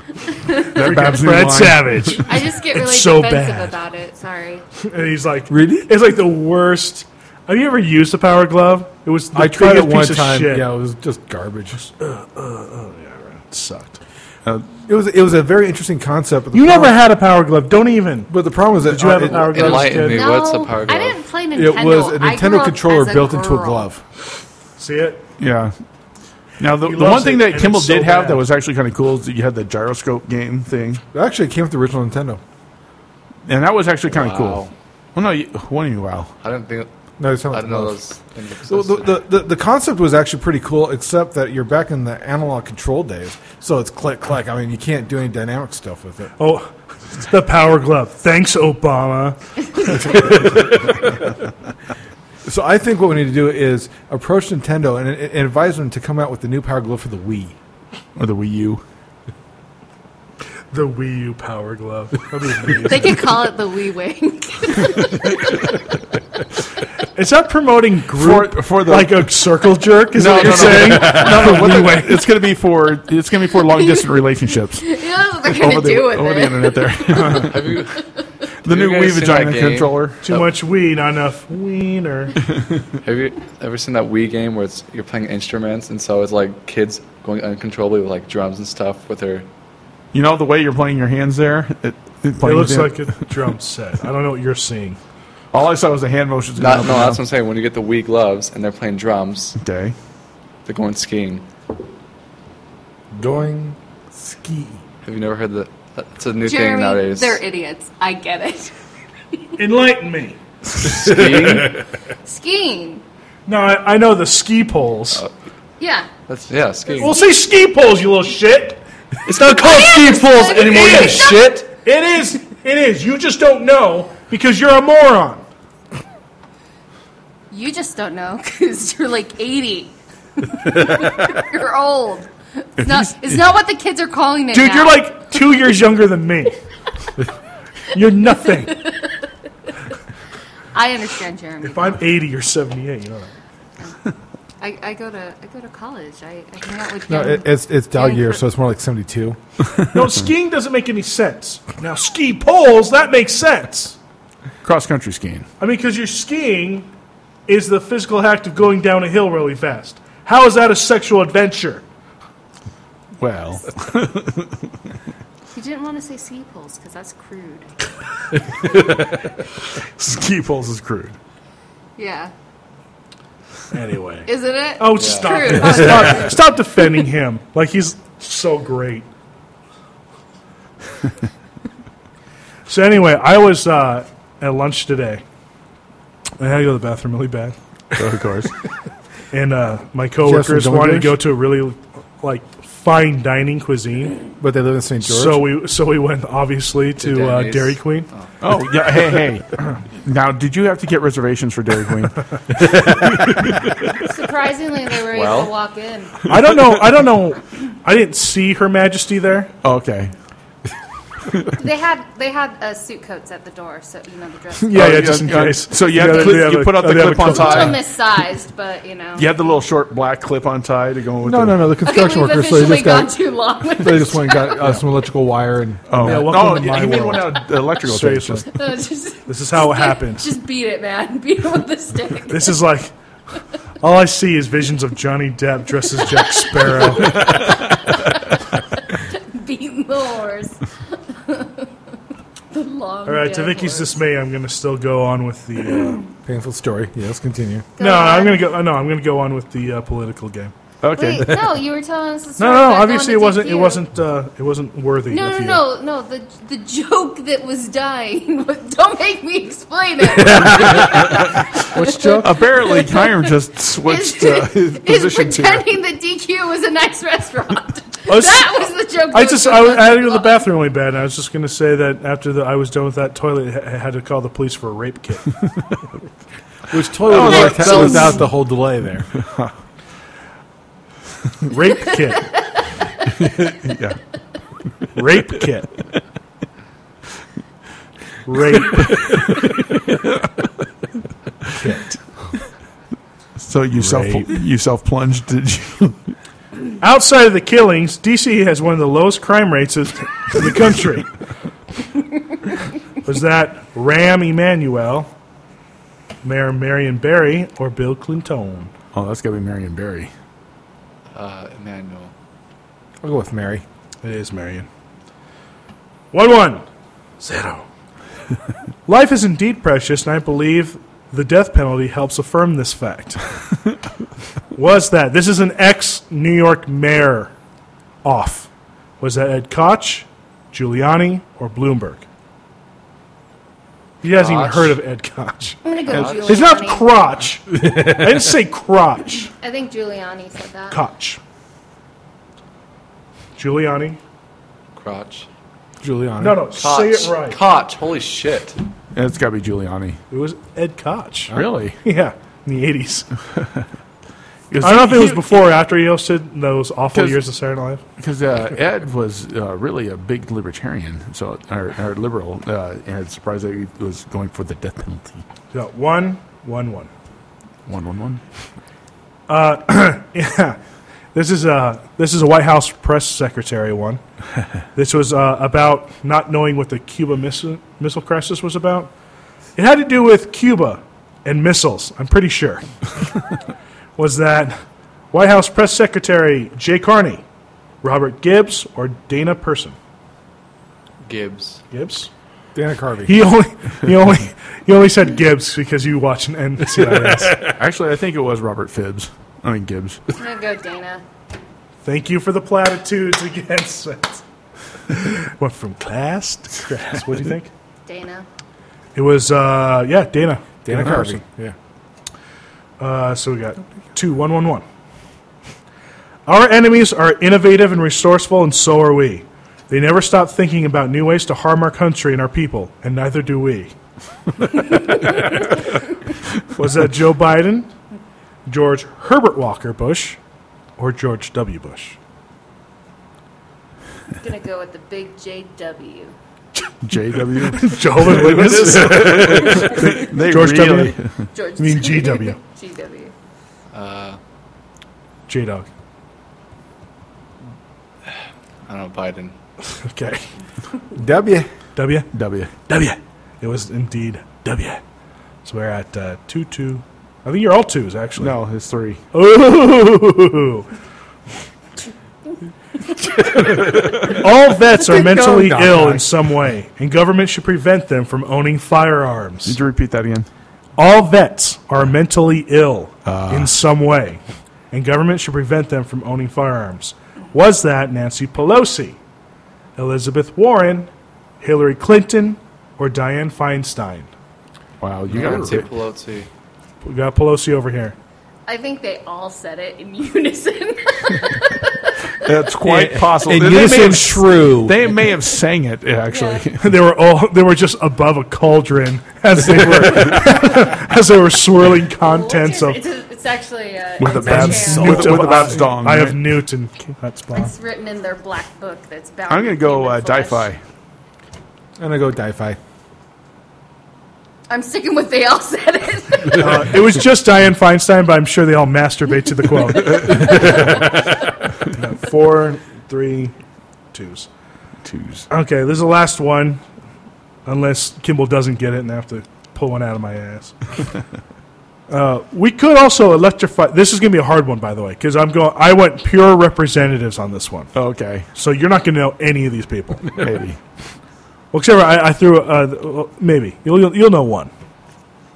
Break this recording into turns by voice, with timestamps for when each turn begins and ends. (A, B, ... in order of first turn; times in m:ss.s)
0:00.3-0:00.8 A
0:00.7-0:02.0 B
0:00.8-0:03.7 C
0:00.9-0:01.6 D
0:02.2-0:04.7 A
0:04.8-0:10.7 C
0:05.5-0:05.9 D
0:09.3-0:11.8 D
0:11.8-0:14.0 C
0:14.9-0:17.0 D
0:16.5-0:18.3 C
0:18.3-0:20.0 D
0:18.9-0:20.4 C
0:19.3-0:21.2 E
0:20.0-0:23.9 A
0:21.5-0:24.0 D
0:24.8-0:25.2 C
0:25.4-0:25.7 B
0:26.6-0:31.0 B
0:26.8-0:28.4 C
0:31.1-0:32.4 D
0:33.5-0:36.3 B
0:34.1-0:34.7 E
0:36.4-0:39.3 E
0:37.2-0:38.0 D
0:38.7-0:46.3 D
0:46.4-0:50.6 C
0:52.4-0:57.6 D
0:58.2-0:58.8 B
1:00.7-1:03.2 C
1:02.8-1:05.8 A
1:07.2-1:12.2 C
1:08.1-1:09.3 B
1:10.1-1:17.8 B
1:13.6-1:17.4 A
1:17.1-1:18.0 E
1:18.6-1:20.2 B
1:18.6-1:20.5 E
1:20.2-1:22.4 C
1:23.0-1:29.5 E
1:30.1-1:33.2 B
1:32.4-1:35.0 C
1:35.5-1:37.2 B
1:36.6-1:39.6 E
1:39.6-1:40.0 B
1:40.7-1:41.4 E
1:43.1-1:44.8 D
1:45.0-1:47.4 E
1:46.4-1:48.7 A
1:49.6-1:50.4 C
1:50.8-1:51.8 E
1:52.2-1:53.0 A
1:53.5-1:55.2 C
1:55.8-1:56.1 A
1:56.3-1:57.1 E
1:56.9-1:57.4 A
1:57.0-2:05.4 C
1:59.4-2:01.7 A
2:07.5-2:15.2 A
2:12.8-2:13.4 B
2:14.5-2:16.5 C
2:17.9-2:18.8 C
2:18.7-2:19.1 A
2:20.7-2:22.0 A
2:21.6-2:23.3 C
2:24.6-2:28.4 A
2:27.1-2:29.4 D
2:29.9-2:34.0 C
2:34.6-2:35.5 B
2:35.6-2:36.9 C
2:37.5-2:41.8 C
2:43.2-2:44.6 B
2:45.5-2:47.7 A
2:48.6-2:49.3 B
2:49.8-2:51.2 B
2:52.0-2:52.3 A
2:53.7-2:59.1 C
2:54.3-2:56.4 A
2:55.0-2:55.6 E
3:02.7-3:05.2 C
3:06.4-3:07.6 C
3:08.0-3:08.5 B
3:09.3-3:14.2 C
3:10.2-3:11.2 D
3:14.4-3:15.5 D
3:15.0-3:18.1 C
3:17.0-3:18.3 E
3:18.4-3:23.9 B
3:24.0-3:26.3 A
3:25.1-3:25.5 E
3:26.3-3:29.5 C
3:26.4-3:26.8 B
3:29.6-3:30.1 B
3:31.6-3:35.4 A
3:34.6-3:37.8 B
3:34.7-3:37.7 C
3:36.0-3:37.8 D
3:37.2-3:39.3 A
3:39.2-3:41.8 B
3:41.2-3:43.2 D
3:41.8-3:44.8 A
3:43.7-3:46.3 D
3:45.9-3:48.5 B
3:46.0-3:48.5 C
3:48.4-3:52.6 A
3:49.3-3:50.3 C
3:52.3-3:52.9 C
3:53.8-3:57.4 C
3:56.4-4:01.7 A
3:57.2-3:57.6 B
4:02.5-4:04.0 A
4:03.1-4:06.0 C
4:06.3-4:07.7 D
4:07.8-4:08.5 A
4:07.8-4:10.5 C
4:10.8-4:11.5 B
4:10.9-4:13.8 A
4:12.4-4:15.6 C
4:15.1-4:30.4 A
4:20.5-4:21.2 B
4:21.8-4:22.2 C
4:21.8-4:22.3 D
4:21.8-4:25.6 B
4:28.1-4:28.5 C
4:29.1-4:35.4 C
4:36.7-4:39.1 D
4:37.0-4:38.3 B
4:37.5-4:38.1 A
4:39.1-4:39.5 B
4:41.5-4:42.3 C
4:43.1-4:44.0 B
4:45.0-4:45.7 C
4:48.3-4:49.2 C
4:48.7-4:50.3 B
4:51.6-4:52.0 C
4:53.4-4:56.2 B
4:53.7-4:54.3 C
4:56.8-5:01.1 C
5:03.0-5:05.1 C
5:06.2-5:08.7 C
5:08.9-5:10.1 B
5:11.1-5:12.1 E
5:13.0-5:13.6 D
5:14.0-5:14.7 C
5:16.1-5:16.6 C
5:17.2-5:17.6 C
5:18.9-5:23.2 C
5:24.6-5:27.3 C
5:28.0-5:28.5 C
5:29.0-5:32.1 C
5:34.0-5:35.6 C
5:34.1-5:34.8 E
5:35.6-5:37.1 A
5:35.9-5:36.4 E
5:36.2-5:39.3 C
5:39.4-5:40.8 A
5:40.7-5:41.2 C
5:43.4-5:44.0 C
5:44.8-5:45.3 E
5:45.8-5:46.6 D
5:46.2-5:47.4 C
5:46.6-5:48.6 E
5:48.9-5:50.0 B
5:50.1-5:53.1 C
5:51.3-5:51.8 B
5:53.3-5:53.7 B
5:54.5-5:55.5 B
5:54.6-5:57.8 C
5:56.9-5:57.2 B
5:58.0-6:05.2 B
6:05.5-6:06.9 C
6:07.7-6:08.2 B
6:09.3-6:10.6 C
6:11.1-6:14.0 C
6:14.8-6:18.9 C
6:19.6-6:22.7 C
6:24.0-6:24.6 C
6:25.1-6:27.2 C
6:27.8-6:29.8 C
6:31.0-6:31.6 E
6:31.7-6:32.1 C
6:32.6-6:33.2 D
6:33.1-6:37.6 C
6:37.3-6:40.0 B
6:40.2-6:41.0 A
6:41.8-6:44.2 C
6:44.9-6:47.5 C
6:47.9-6:48.3 A
6:49.0-6:51.2 C
6:50.6-6:51.6 D
6:52.8-6:54.6 C
6:56.3-7:03.7 C
7:04.5-7:05.6 C
7:06.5-7:07.7 C
7:08.5-7:10.2 C
7:10.8-7:12.0 C
7:14.2-7:16.2 A
7:16.8-7:21.1 B
7:17.4-7:21.0 C
7:19.6-7:20.0 A
7:21.3-7:23.1 A
7:21.6-7:22.4 C
7:23.7-7:24.2 E
7:25.3-7:25.7 C
7:28.7-7:29.4 E
7:29.7-7:30.3 C
7:31.0-7:31.5 D
7:31.8-7:32.1 C
7:32.1-7:32.5 B
7:32.7-7:34.8 C
7:35.4-7:38.4 C
7:38.2-7:39.0 B
7:39.1-7:40.7 C
7:43.2-7:44.2 D
7:43.9-7:49.6 C
7:44.7-7:46.1 D
7:49.4-7:50.3 B
7:50.8-7:59.0 C
7:53.0-7:53.5 B
7:59.8-8:00.9 C
8:01.4-8:04.1 C
8:04.8-8:05.7 B
8:05.1-8:06.3 E
8:06.8-8:08.0 C
8:08.5-8:12.3 A
8:12.2-8:16.8 B
8:12.6-8:14.8 D
8:16.1-8:16.5 A
8:16.6-8:22.8 C
8:22.0-8:25.4 A
8:24.0-8:26.2 B
8:24.2-8:27.5 C
8:27.3-8:30.5 A
8:29.3-8:30.6 B
8:31.8-8:32.6 D
8:34.5-8:36.6 A
8:36.3-8:41.0 C
8:40.0-8:40.6 A
8:41.7-8:43.4 C
8:43.9-8:44.3 C
8:44.8-8:45.3 B
8:45.3-8:46.6 C
8:47.5-8:50.6 C
8:51.9-8:57.7 C
8:57.7-8:58.3 B
8:58.3-9:00.1 C
9:00.1-9:00.6 B
9:01.5-9:04.5 C